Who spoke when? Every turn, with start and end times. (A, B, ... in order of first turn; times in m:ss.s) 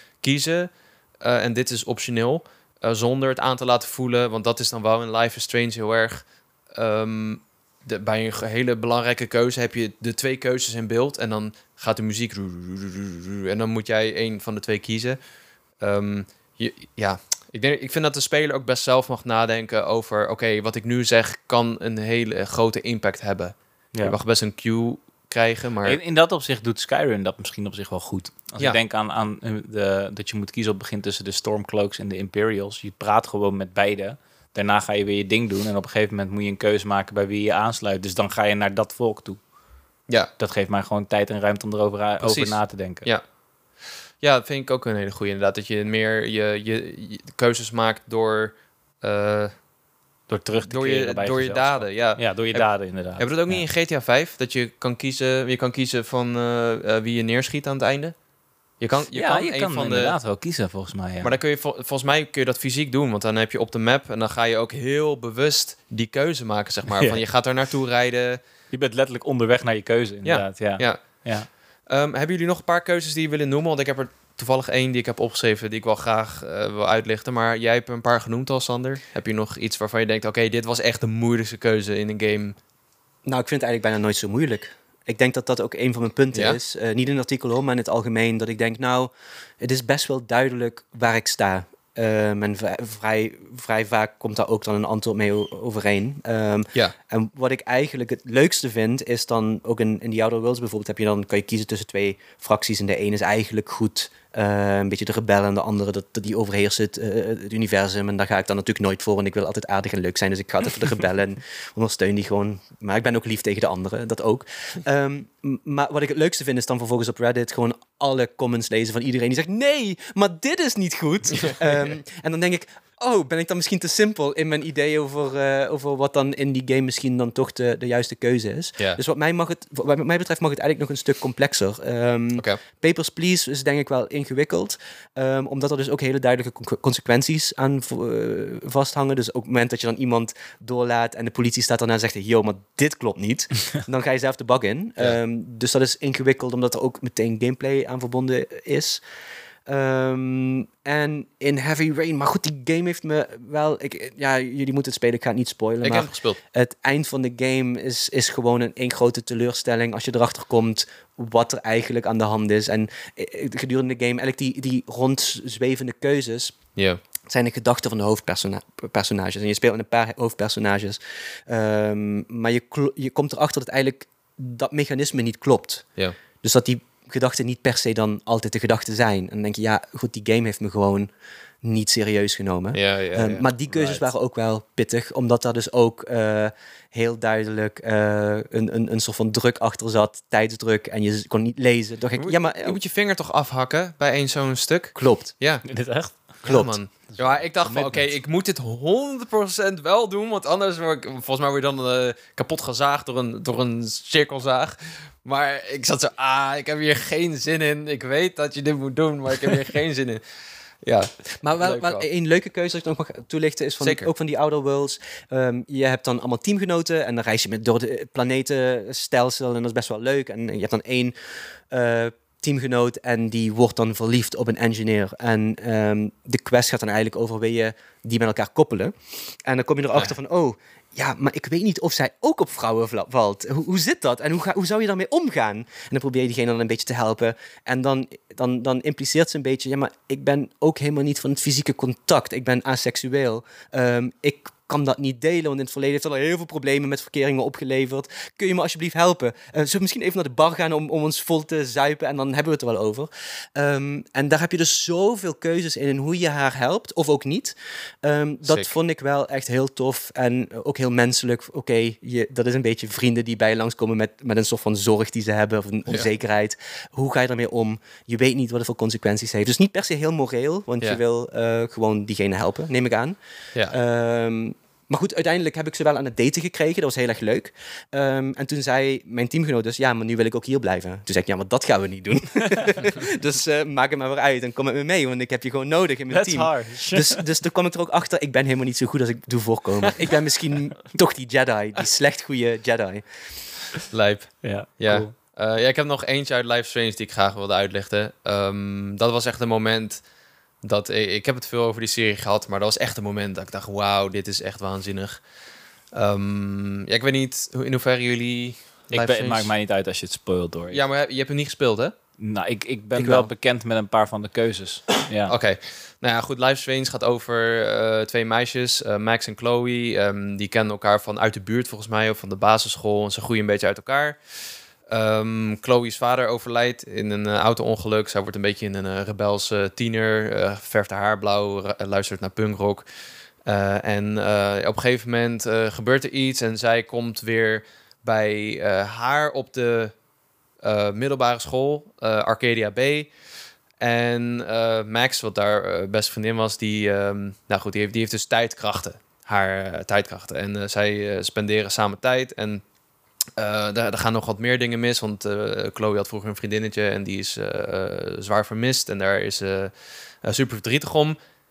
0:00.2-0:15.2 A
0:15.8-0:26.0 A
0:25.8-0:39.4 B
0:40.4-0:43.1 B
0:42.2-0:43.2 A
0:44.2-0:49.6 A
0:50.3-0:53.6 B
0:50.6-0:58.2 A
0:58.8-1:00.2 A
0:59.1-1:01.4 B
1:01.2-1:08.4 A
1:08.7-1:11.5 B
1:10.2-1:22.6 A
1:23.2-2:29.0 C
1:26.3-1:26.6 A
2:29.6-2:46.6 C
2:35.8-2:36.4 A
2:47.2-2:55.8 C
2:56.4-3:01.1 C
3:01.6-3:12.8 C
3:02.7-3:04.1 A
3:12.2-3:15.6 A
3:15.0-3:15.3 C
3:15.6-3:16.4 B
3:16.2-3:30.2 A
3:16.4-3:16.8 C
3:17.1-3:18.1 B
3:30.8-3:32.1 A
3:31.4-3:41.1 C
3:33.8-3:34.1 A
3:41.7-4:33.2 C
4:18.4-4:18.7 A
4:33.7-4:53.0 C
4:46.1-4:47.2 B
4:53.9-5:00.0 A
4:54.4-4:55.1 B
5:00.6-5:05.2 A
5:05.9-5:09.5 A
5:08.9-5:10.8 B
5:10.7-5:11.9 A
5:12.2-5:15.3 B
5:13.0-5:13.3 A
5:15.3-5:24.2 A
5:24.9-5:32.8 A
5:33.4-5:39.9 A
5:40.6-5:43.1 A
5:43.8-5:52.6 A
5:53.4-5:59.7 A
6:00.2-6:01.2 A